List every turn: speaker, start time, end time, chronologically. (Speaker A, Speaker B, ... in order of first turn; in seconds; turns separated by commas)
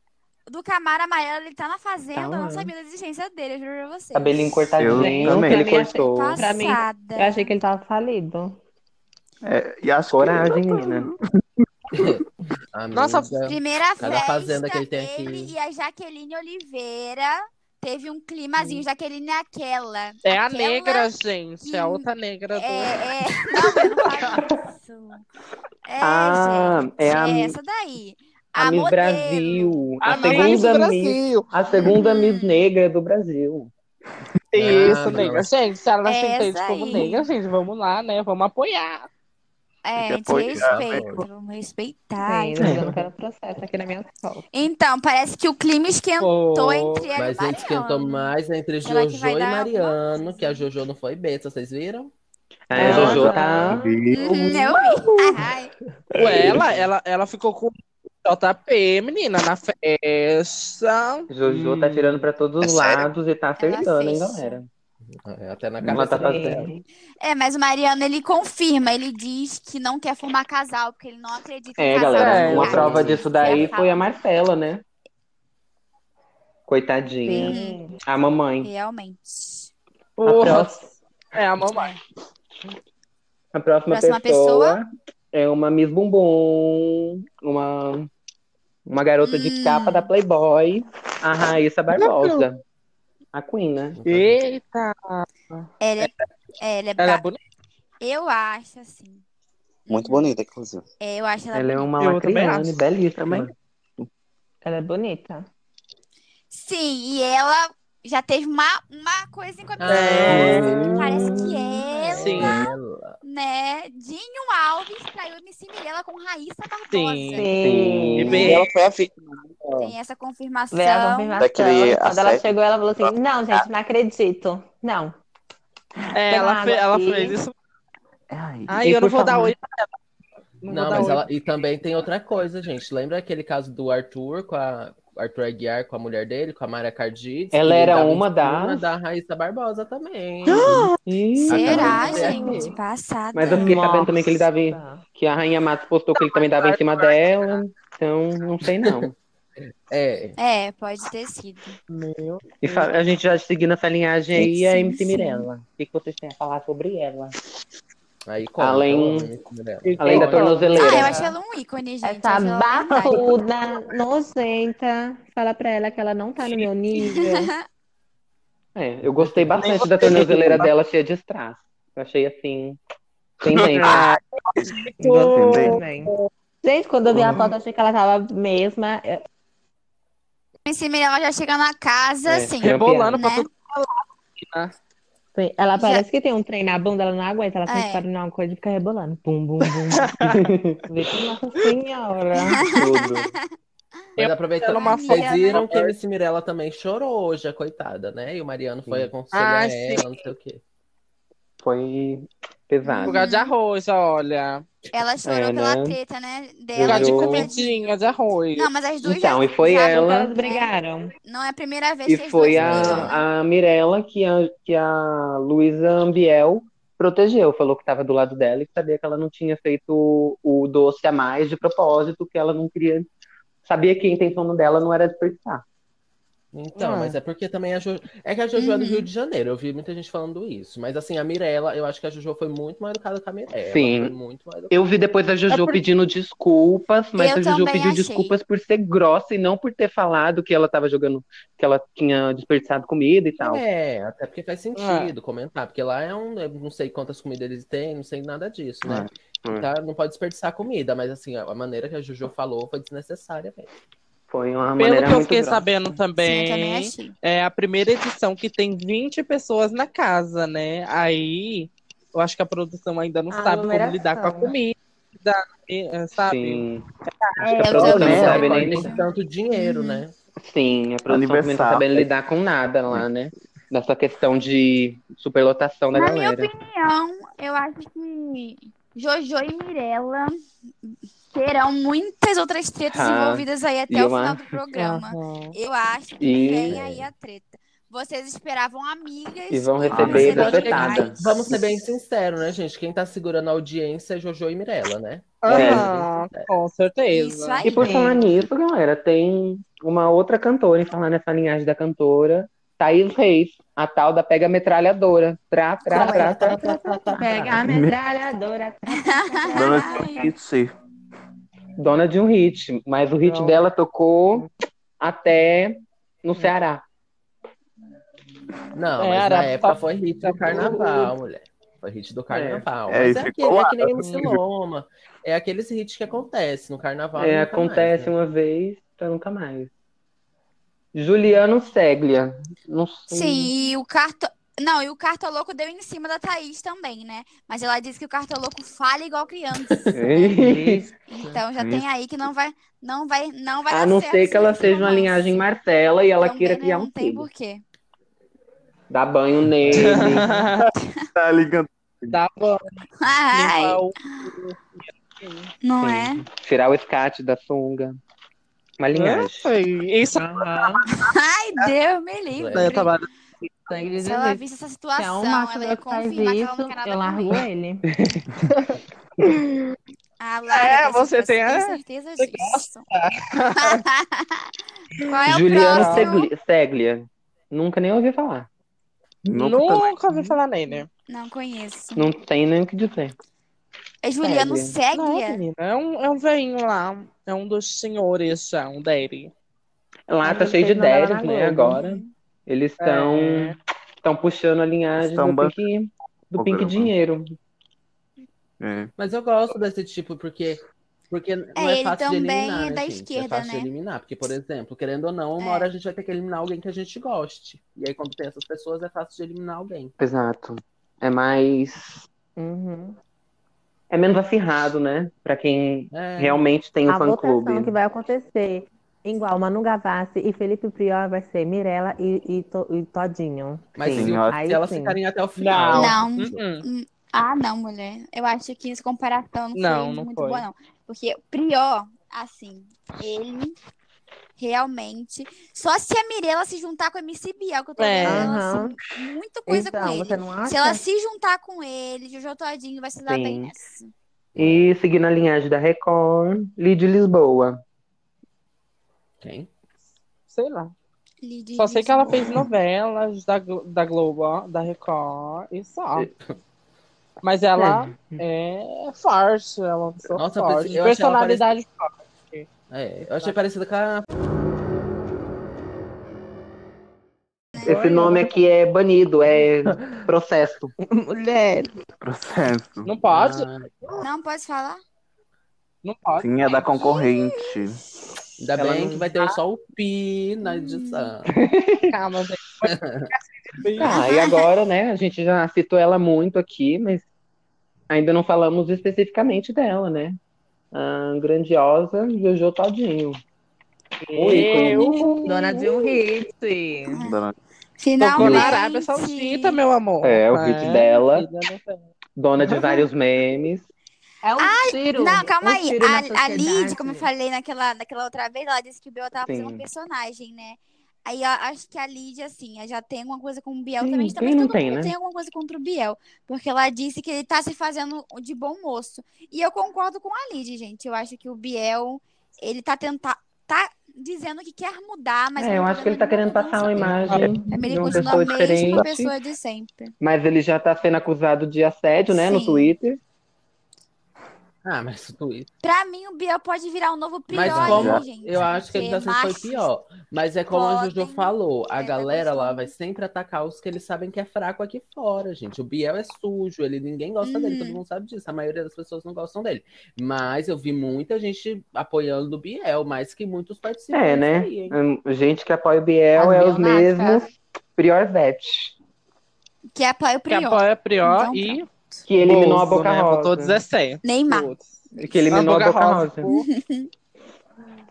Speaker A: 0.5-4.7, Speaker B: 2.1-2.7, Speaker B: 4.1-6.5, Speaker C: 4.8-5.5, Speaker D: 4.8-8.6, Speaker A: 5.5-7.5, Speaker C: 9.4-11.1, Speaker B: 10.1-11.1, Speaker E: 11.9-12.2, Speaker E: 12.7-15.5, Speaker F: 12.9-13.4, Speaker A: 13.4-25.2, Speaker F: 20.2-23.1, Speaker F: 23.9-24.4, Speaker A: 25.8-30.8, Speaker B: 26.0-27.6, Speaker B: 28.6-33.7, Speaker F: 30.0-31.5, Speaker A: 31.7-32.6, Speaker F: 34.5-39.1, Speaker E: 34.5-35.6, Speaker A: 36.0-37.1, Speaker A: 39.8-42.8, Speaker G: 40.0-40.8, Speaker E: 40.6-41.3, Speaker D: 42.2-44.5, Speaker A: 44.5-48.3, Speaker B: 46.2-47.1, Speaker E: 47.1-52.1, Speaker A: 48.8-50.7, Speaker B: 52.7-53.8, Speaker D: 52.7-54.8, Speaker C: 52.8-54.2, Speaker E: 52.9-53.2, Speaker F: 52.9-53.2, Speaker A: 54.1-55.7, Speaker F: 55.0-55.3, Speaker F: 56.1-62.2, Speaker E: 56.2-56.9, Speaker B: 61.3-64.7, Speaker G: 62.6-63.1, Speaker A: 63.6-64.6, Speaker E: 65.0-66.7, Speaker B: 65.8-66.7, Speaker D: 66.0-66.8, Speaker A: 67.2-74.1, Speaker B: 71.8-74.8, Speaker F: 72.1-73.0, Speaker E: 72.3-73.6, Speaker B: 76.7-78.7, Speaker D: 77.2-78.0, Speaker A: 77.3-77.8, Speaker A: 78.6-79.7, Speaker F: 80.2-81.9, Speaker B: 80.2-80.8, Speaker B: 83.5-88.1, Speaker A: 83.9-84.8, Speaker B: 88.9-92.6, Speaker A: 89.2-90.1, Speaker F: 91.9-92.5, Speaker B: 93.3-94.0, Speaker E: 93.9-94.4, Speaker F: 94.0-96.3, Speaker A: 95.8-97.2, Speaker F: 97.0-97.4, Speaker A: 98.0-99.2, Speaker A: 99.8-100.3, Speaker G: 99.9-100.8, Speaker A: 101.0-101.9, Speaker B: 101.5-103.5, Speaker F: 102.0-102.8, Speaker D: 104.6-105.5, Speaker A: 106.5-112.6, Speaker E: 109.8-111.2, Speaker F: 109.9-111.1, Speaker B: 110.2-111.7, Speaker E: 111.8-113.2, Speaker F: 112.1-112.6, Speaker A: 113.2-117.5, Speaker F: 116.9-117.5, Speaker D: 117.3-118.5, Speaker B: 117.6-118.6, Speaker F: 118.2-118.7, Speaker G: 118.2-119.9, Speaker A: 119.8-121.5, Speaker D: 120.7-125.2, Speaker G: 121.4-123.7, Speaker F: 126.1-127.5, Speaker D: 126.2-127.4, Speaker C: 128.3-128.8, Speaker F: 128.7-129.9, Speaker B: 128.8-129.5, Speaker F: 130.6-131.3, Speaker E: 130.7-140.9, Speaker B: 137.5-138.9, Speaker F: 140.5-140.9, Speaker B: 140.9-142.5, Speaker E: 141.5-142.7, Speaker A: 141.5-143.9, Speaker D: 141.7-142.7, Speaker B: 143.3-149.1, Speaker D: 143.5-145.0, Speaker F: 146.2-147.2, Speaker E: 149.9-150.4, Speaker A: 150.4-151.8, Speaker F: 151.9-152.9, Speaker B: 152.6-157.3, Speaker A: 154.4-155.5, Speaker E: 158.3-160.6, Speaker B: 158.6-159.3, Speaker F: 159.8-161.3, Speaker B: 160.0-161.2, Speaker D: 160.1-161.2, Speaker A: 160.7-163.3, Speaker D: 162.0-167.5, Speaker A: 166.9-167.6, Speaker B: 168.7-172.8, Speaker F: 169.2-170.7, Speaker B: 173.4-174.2, Speaker F: 173.7-176.3, Speaker D: 175.0-179.2, Speaker C: 175.3-175.8, Speaker B: 177.2-177.4, Speaker A: 180.6-183.5, Speaker B: 182.3-183.3, Speaker F: 182.6-184.7, Speaker D: 185.3-190.2, Speaker A: 185.8-186.1, Speaker A: 187.7-188.0, Speaker F: 189.7-190.4, Speaker B: 190.3-190.8, Speaker D: 190.9-192.6, Speaker A: 192.4-193.5, Speaker B: 192.6-193.3, Speaker F: 194.2-195.7, Speaker E: 194.2-200.6, Speaker A: 194.7-195.7, Speaker F: 199.3-200.2, Speaker B: 201.6-203.3, Speaker A: 202.8-203.5, Speaker F: 203.1-204.8, Speaker A: 204.9-207.7, Speaker B: 205.2-206.0, Speaker B: 206.7-207.5, Speaker F: 206.8-208.7, Speaker A: 208.5-210.7, Speaker B: 209.0-210.3, Speaker D: 209.8-211.1, Speaker A: 211.2-213.2, Speaker B: 212.1-223.1, Speaker E: 212.6-213.1, Speaker B: 223.6-225.6, Speaker E: 226.5-234.8, Speaker F: 226.7-227.2, Speaker A: 228.6-229.1, Speaker B: 233.7-234.1, Speaker B: 234.7-243.6, Speaker F: 235.5-235.8, Speaker A: 237.2-238.4, Speaker E: 243.4-253.7, Speaker F: 244.8-245.1, Speaker C: 248.8-249.6, Speaker B: 254.3-256.0, Speaker F: 254.8-268.7, Speaker A: 256.2-257.1, Speaker D: 263.3-264.6, Speaker B: 266.3-266.8, Speaker B: 267.4-268.9, Speaker A: 267.4-270.0, Speaker C: 267.9-268.4, Speaker E: 268.0-270.1, Speaker B: 270.4-276.5, Speaker C: 271.1-272.1, Speaker A: 275.9-291.3, Speaker B: 282.9-284.4, Speaker F: 284.7-285.6, Speaker B: 286.2-287.1, Speaker B: 289.5-291.6, Speaker E: 289.9-296.5, Speaker C: 289.9-290.2, Speaker F: 295.4-297.7, Speaker B: 295.5-295.9, Speaker A: 297.1-297.9, Speaker B: 297.6-306.7, Speaker D: 297.7-298.2, Speaker D: 305.9-310.3, Speaker A: 305.9-306.8, Speaker E: 306.5-307.5, Speaker C: 307.6-308.0, Speaker A: 308.9-310.3, Speaker C: 309.6-310.7, Speaker B: 311.8-314.5, Speaker F: 313.3-313.6, Speaker B: 315.0-316.8, Speaker E: 318.7-328.1, Speaker F: 319.0-321.1, Speaker B: 322.3-322.6, Speaker C: 322.9-324.4, Speaker F: 324.0-324.4, Speaker B: 327.2-329.7, Speaker B: 330.9-333.5, Speaker A: 333.1-340.5, Speaker B: 339.9-340.8, Speaker D: 340.4-340.9, Speaker A: 341.1-345.4, Speaker C: 341.5-341.9, Speaker B: 343.7-347.3, Speaker A: 346.2-347.6, Speaker B: 348.9-350.5, Speaker F: 349.7-350.7, Speaker A: 350.8-351.1, Speaker C: 351.1-352.2, Speaker F: 352.1-355.5, Speaker A: 353.0-354.3, Speaker A: 355.6-356.2, Speaker B: 355.8-358.0, Speaker B: 358.8-359.5, Speaker F: 358.9-361.1, Speaker D: 360.1-360.8, Speaker A: 360.9-362.9, Speaker E: 362.3-362.9, Speaker F: 362.5-363.5, Speaker D: 363.7-364.4, Speaker A: 364.0-367.5, Speaker D: 364.9-367.8, Speaker B: 367.9-368.3, Speaker F: 369.2-369.7, Speaker A: 370.2-372.9, Speaker F: 370.5-373.8, Speaker A: 373.6-374.5, Speaker F: 375.0-376.1, Speaker A: 375.1-376.3, Speaker B: 375.3-378.5, Speaker C: 379.2-379.9, Speaker F: 379.4-380.9, Speaker A: 381.1-382.1, Speaker B: 381.9-383.1, Speaker A: 384.0-385.4, Speaker B: 384.2-384.7, Speaker F: 384.9-389.3, Speaker B: 390.1-397.3, Speaker D: 390.2-391.8, Speaker A: 391.7-392.1, Speaker F: 392.8-393.6, Speaker C: 395.0-395.6, Speaker C: 396.3-396.9, Speaker C: 398.6-398.9, Speaker E: 399.0-409.9, Speaker A: 401.5-403.7, Speaker A: 405.4-405.7, Speaker B: 410.0-412.0, Speaker D: 412.4-413.0, Speaker B: 413.9-417.8, Speaker E: 415.9-416.5, Speaker D: 416.9-425.0, Speaker E: 423.8-426.4, Speaker C: 423.9-424.4, Speaker F: 425.4-426.6, Speaker A: 425.7-433.6, Speaker F: 429.5-430.4, Speaker A: 434.4-443.9, Speaker F: 437.8-438.5, Speaker D: 438.0-438.8, Speaker D: 439.5-440.8, Speaker B: 443.1-443.5, Speaker E: 444.3-444.7, Speaker B: 444.4-447.6, Speaker E: 449.2-449.5, Speaker F: 450.3-450.7, Speaker A: 451.2-452.4, Speaker F: 451.6-456.1, Speaker F: 457.2-462.5, Speaker B: 457.6-458.2, Speaker E: 460.2-461.5, Speaker E: 462.7-464.1, Speaker A: 467.5-467.8, Speaker F: 467.5-468.2, Speaker B: 467.6-470.7, Speaker D: 467.9-468.3, Speaker D: 470.9-471.7, Speaker C: 472.0-472.9, Speaker F: 472.9-473.5, Speaker E: 473.1-473.9, Speaker A: 474.0-474.8, Speaker F: 475.8-476.8, Speaker C: 476.2-477.8, Speaker E: 478.4-481.3, Speaker B: 478.6-479.0, Speaker A: 480.4-481.1, Speaker B: 481.3-481.9, Speaker F: 481.9-484.1, Speaker E: 482.6-483.1, Speaker B: 483.7-487.0, Speaker A: 483.9-484.5, Speaker B: 487.9-490.2, Speaker B: 490.7-493.2, Speaker F: 494.1-495.6, Speaker B: 494.1-495.3, Speaker D: 494.2-497.0, Speaker A: 496.9-497.2, Speaker C: 497.0-497.4, Speaker A: 497.8-499.6, Speaker F: 498.0-502.8, Speaker B: 498.1-498.6, Speaker B: 500.0-501.3, Speaker B: 502.1-503.7, Speaker D: 504.2-507.1, Speaker A: 504.4-529.9, Speaker B: 509.2-509.6, Speaker B: 513.8-514.9, Speaker B: 525.4-529.2, Speaker F: 527.0-527.5, Speaker D: 527.1-528.0, Speaker B: 530.0-533.0, Speaker A: 532.1-532.8, Speaker E: 534.6-535.5, Speaker A: 535.6-539.7, Speaker E: 537.3-554.5, Speaker C: 537.3-538.0, Speaker A: 540.5-542.7, Speaker A: 547.2-547.8, Speaker B: 553.9-558.7, Speaker F: 554.2-554.7, Speaker D: 556.1-557.3, Speaker A: 559.7-561.6, Speaker F: 560.3-564.7, Speaker B: 562.1-563.6, Speaker A: 564.0-565.4, Speaker B: 564.9-566.3, Speaker F: 565.3-566.5, Speaker A: 566.2-566.9